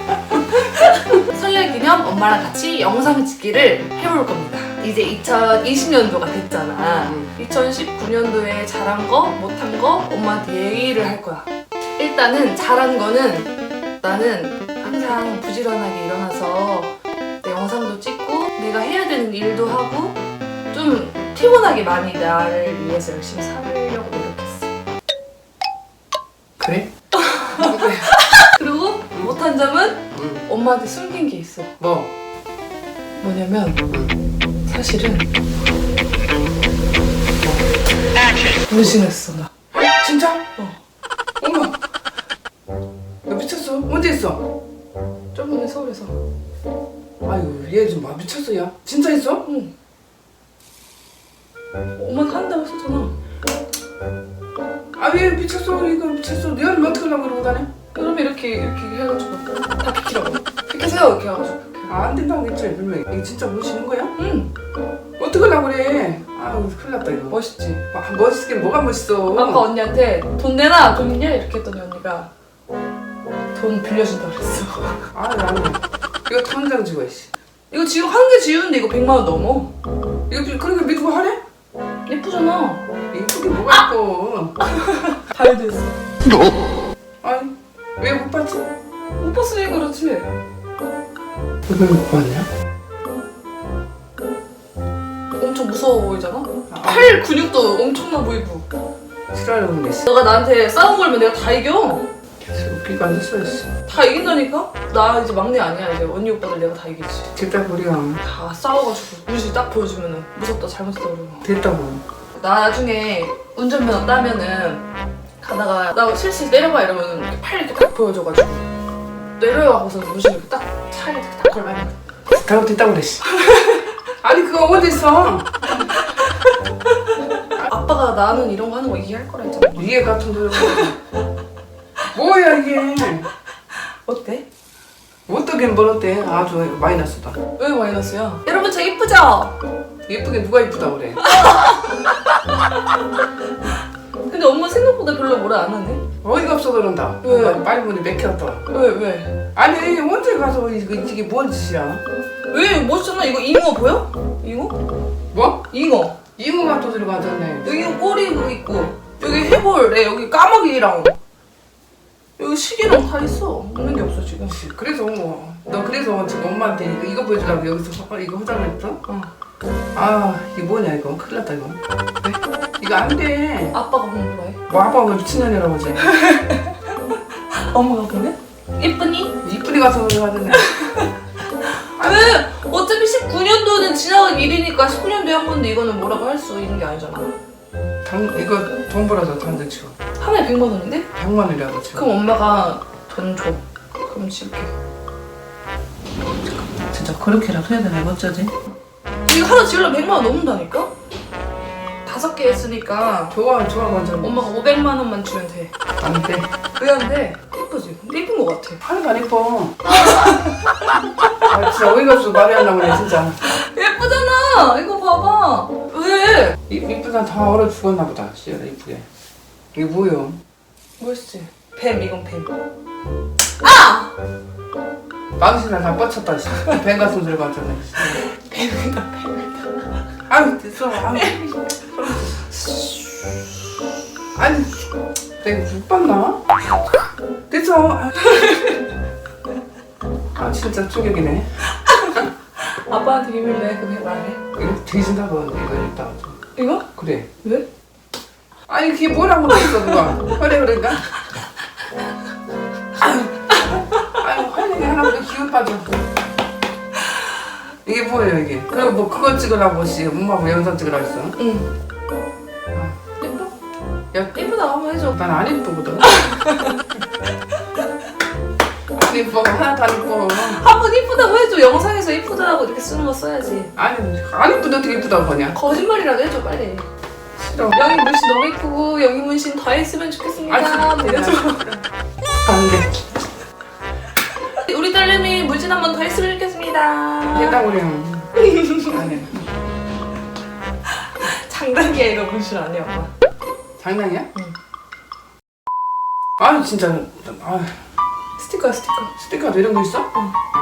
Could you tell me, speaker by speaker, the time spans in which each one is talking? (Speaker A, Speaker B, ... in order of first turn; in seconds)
Speaker A: 0.3-0.6, 7.0-7.3, 26.6-26.9, 27.6-28.1, 30.1-30.4, 31.8-32.1, 33.9-34.1, 39.8-40.4, 41.4-41.8, 43.3-44.4, 47.2-49.4, 55.0-57.7, 61.9-64.1, 65.2-67.4, 67.9-69.7, 75.1-77.3, 80.3-81.4, 83.1-84.5, 87.2-88.7, 91.7-92.5, 96.7-97.1, 99.3-100.0, 102.4-103.7, 107.3-108.2, 111.4-112.0, 122.3-123.2, 124.2-125.6, 129.7-131.0, 132.1-133.3, 135.3-137.4, 140.1-141.2, 146.2-148.6, 149.6-152.0, 155.3-155.7, 156.3-158.0, 164.5-169.0, 169.9-173.8, 174.7-176.0, 179.4-180.7, 182.0-182.4, 188.0-189.9, 191.1-192.1, 196.5-198.5, 203.3-204.4, 206.0-206.5, 208.8-209.8, 211.4-213.4, 216.7-219.1, 219.7-220.4, 225.4-228.3, 230.3-231.4, 234.3-234.9, 235.4-236.4, 237.5-238.2, 240.3-241.6, 244.6-246.4, 246.9-247.3, 248.7-251.1, 253.0-253.6, 254.1-256.0, 257.8-261.4, 262.7-263.0, 264.1-264.5, 265.1-266.2, 268.9-270.6, 273.8-275.6, 277.4-277.8, 280.4-281.9, 282.4-283.0, 287.3-289.4, 293.8-294.3, 296.4-297.8, 299.2-300.1
Speaker B: 0.6-20.2, 20.7-24.7, 27.2-31.7, 33.2-33.8, 34.6-35.3, 38.7-39.5, 45.3-46.1, 49.4-49.7, 52.0-53.1, 57.9-61.9, 64.2-64.5, 67.3-67.8, 69.3-72.3, 73.5-75.0, 77.7-79.7, 82.0-82.8, 84.6-85.9, 89.2-90.3, 95.4-98.7, 100.0-102.0, 103.8-107.3, 108.2-111.5, 112.3-114.8, 115.4-118.7, 119.4-122.0, 123.3-123.8, 127.4-130.0, 130.5-130.9, 134.1-134.4, 137.6-139.6, 141.2-143.0, 144.3-146.0, 147.2-147.6, 148.7-149.4, 152.5-154.8, 155.7-156.2, 157.6-161.2, 162.4-164.6, 173.7-174.6, 176.0-176.8, 177.5-179.3, 180.5-181.1, 182.0-187.3, 190.2-191.1, 191.9-194.7, 199.2-200.9, 202.0-203.4, 204.2-205.7, 206.8-208.8, 209.9-210.7, 213.4-216.6, 221.0-222.5, 223.6-224.1, 228.2-229.9, 231.1-233.5, 238.2-238.8, 241.9-244.4, 246.6-246.9, 247.4-247.7, 249.5-249.8, 253.6-253.8, 261.4-261.7, 263.2-263.5, 264.3-265.2, 266.0-266.8, 270.4-273.7, 275.5-276.9, 277.7-281.6, 284.4-287.6, 288.4-289.2, 291.1-293.1, 298.4-299.1